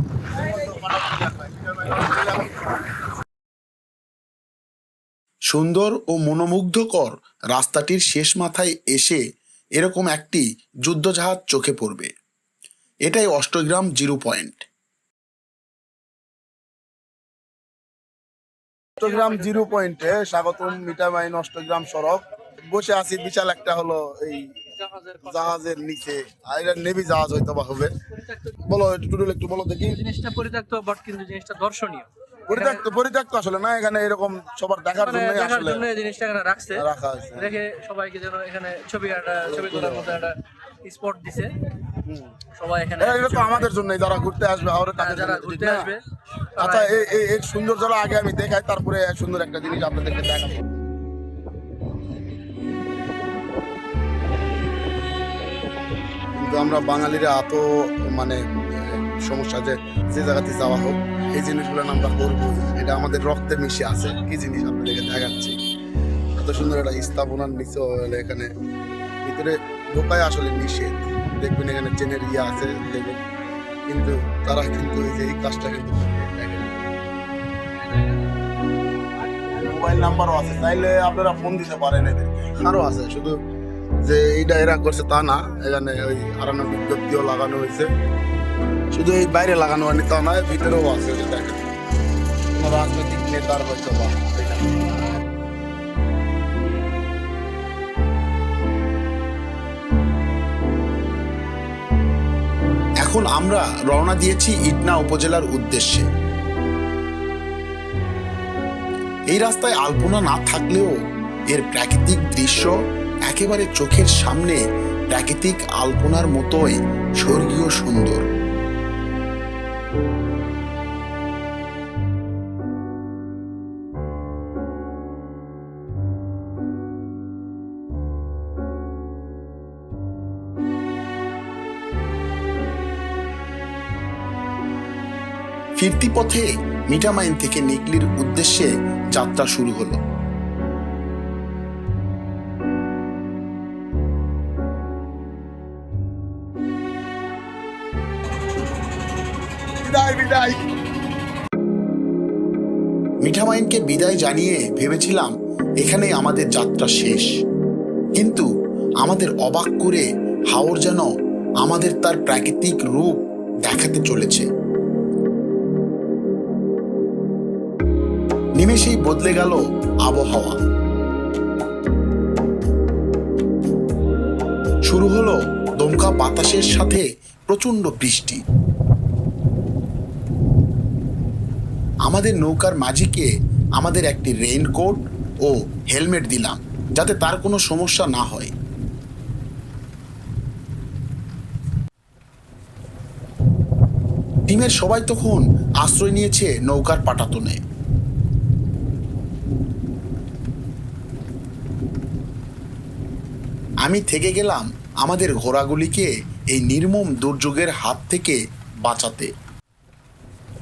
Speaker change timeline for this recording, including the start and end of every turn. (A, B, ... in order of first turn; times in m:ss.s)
0:00.3-0:02.7 A
0:05.5-0:09.2 B
0:09.8-0:12.1 B
0:13.0-0:14.6 B
0:19.0-0:24.5 A
0:19.0-0:19.5 C
0:24.8-0:25.6 C
0:25.2-0:27.9 A
0:28.7-0:30.0 A
0:29.9-0:32.8 C
0:32.5-0:35.9 A
0:35.0-0:36.8 C
0:36.7-0:37.6 A
0:37.4-0:41.5 C
0:39.5-0:40.2 A
0:42.6-0:43.7 C
0:43.0-0:45.9 A
0:45.0-0:46.0 C
0:46.6-0:47.2 C
0:46.6-0:50.6 A
0:56.4-1:05.6 A
1:06.3-1:08.5 A
1:09.2-1:13.2 A
1:13.9-1:16.7 A
1:19.6-1:23.4 A
1:24.0-1:27.9 A
1:28.9-1:31.7 A
1:32.5-1:34.8 A
1:43.0-1:46.0 B
1:49.3-1:50.9 B
1:51.5-1:52.7 B
1:53.3-1:54.6 B
1:55.1-1:58.2 B
2:15.8-2:20.0 B
2:29.8-2:30.6 A
2:33.2-2:37.3 B
2:38.2-2:38.5 B
2:39.0-2:41.1 B
2:41.6-2:44.4 B
2:48.6-2:50.6 B
2:54.9-2:58.4 B
3:02.1-3:08.5 B
3:14.5-3:17.6 B
3:23.8-3:29.3 B